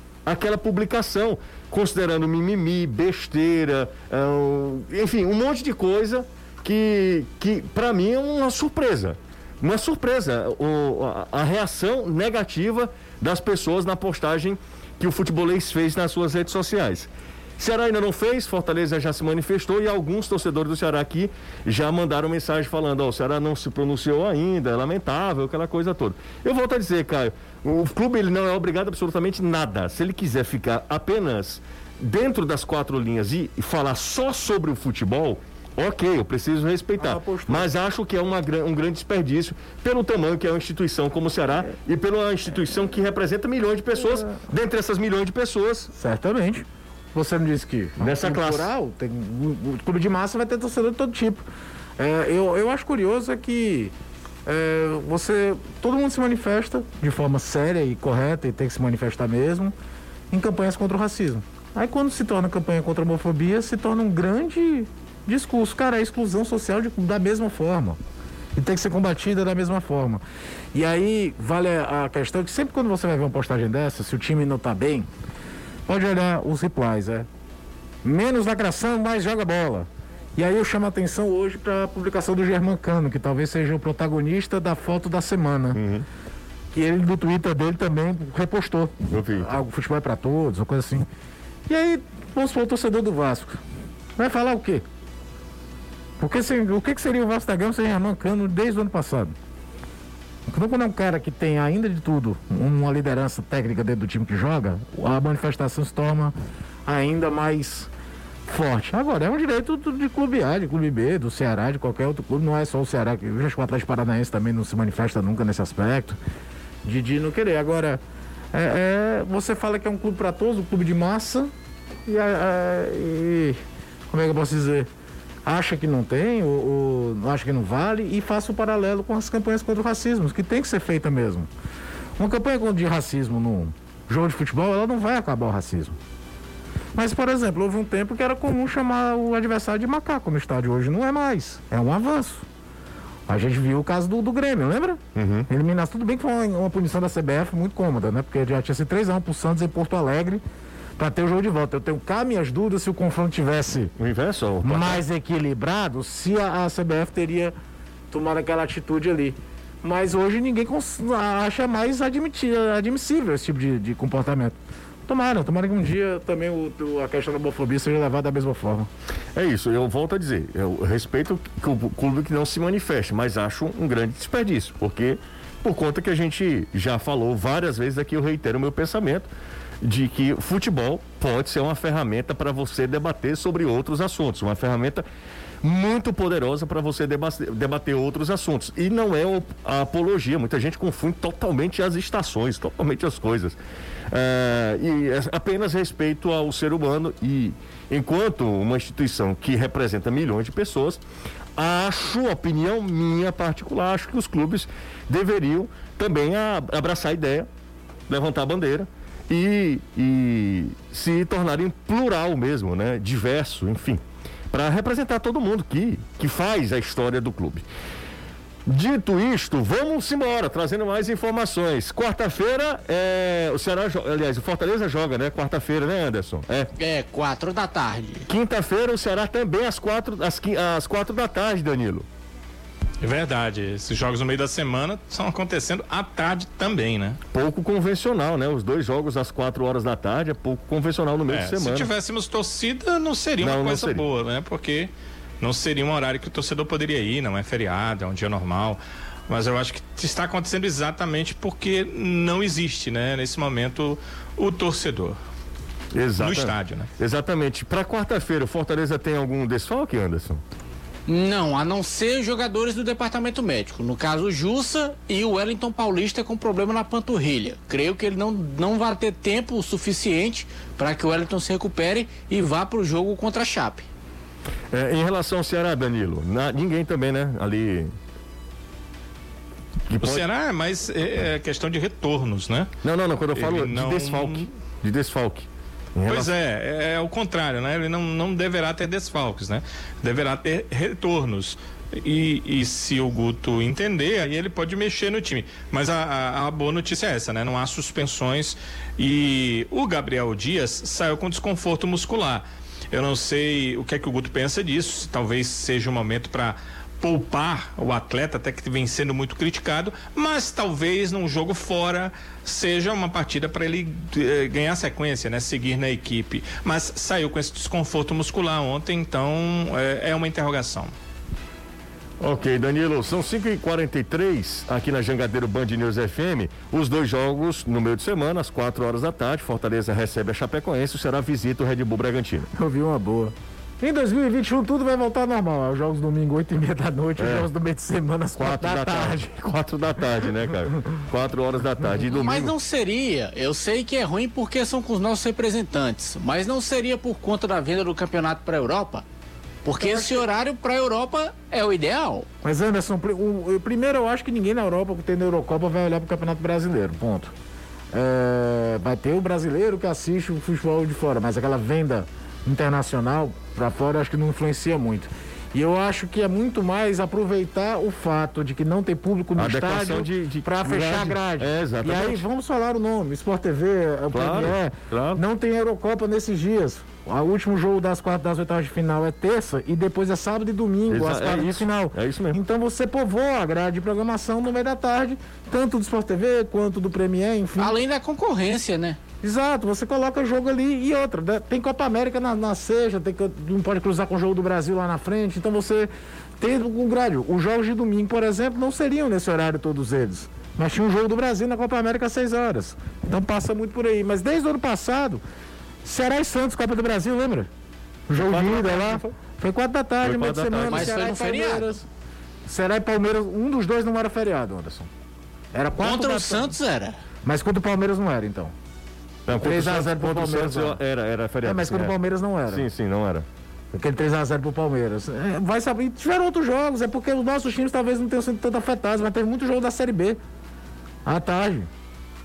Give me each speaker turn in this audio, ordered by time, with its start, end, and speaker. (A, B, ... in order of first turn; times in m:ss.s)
0:00.2-0:45.9 A
0:37.0-0:37.7 B
0:46.0-0:51.4 B
0:48.0-0:48.7 A
0:52.0-0:53.9 B
0:54.5-0:59.7 B
1:00.3-1:08.0 B
1:08.6-1:10.2 B
1:10.7-1:15.1 B
1:15.9-1:17.3 B
1:18.0-1:25.8 B
1:25.7-1:26.1 A
1:26.7-1:31.1 B
1:29.1-1:29.6 A
1:31.7-1:33.6 B
1:34.2-1:34.8 B
1:36.2-1:39.4 B
1:40.5-1:46.3 B
1:46.9-1:47.9 B
1:48.5-1:56.2 B
1:56.8-1:58.0 B
1:58.5-2:01.5 B
2:02.1-2:03.6 B
2:04.1-2:04.9 B
2:05.4-2:11.5 B
2:12.2-2:16.0 B
2:17.0-2:22.4 B
2:23.3-2:30.4 B
2:25.2-2:25.5 A
2:31.0-2:33.9 B
2:34.0-2:35.0 A
2:34.6-2:37.5 B
2:38.1-2:44.6 B
2:45.1-2:48.9 B
2:49.4-2:59.3 A
2:59.8-3:05.0 A
3:05.6-3:13.6 A
3:14.1-3:21.0 A
3:21.6-3:27.5 A
3:28.1-3:37.6 A
3:38.7-3:46.7 A
3:46.8-3:48.3 C
3:48.3-3:52.1 A
3:53.0-3:57.2 D
3:57.3-4:01.9 A
4:01.3-4:15.2 D
4:03.4-4:04.0 A
4:15.9-4:20.4 A
4:16.2-4:16.9 D
4:21.1-4:33.9 C
4:34.7-4:37.9 A
4:39.9-4:40.2 A
4:40.0-4:42.7 D
4:42.8-4:46.3 A
4:43.4-4:44.5 D
4:46.1-5:20.9 D
5:22.2-5:32.5 A
5:32.5-5:39.3 B
5:37.2-5:37.5 A
5:38.4-5:42.5 A
5:42.0-5:49.1 C
5:49.6-5:52.3 C
5:49.8-5:50.2 B
5:52.4-5:57.3 B
5:57.9-6:27.8 B
6:09.4-6:12.3 A
6:14.1-6:15.2 A
6:20.9-6:22.4 A
6:27.6-6:29.0 C
6:29.2-6:45.2 B
6:45.8-6:47.5 B
6:48.1-6:51.9 B
6:48.1-6:49.1 A
6:50.0-6:51.1 A
6:50.7-6:51.8 C
6:52.5-6:54.9 B
6:55.5-6:56.5 B
6:55.8-6:57.0 C
6:57.2-6:58.5 B
6:59.3-7:02.0 A
6:59.3-7:00.8 B
7:01.4-7:02.7 B
7:02.5-7:03.3 A
7:03.7-7:10.2 B
7:11.1-7:11.7 B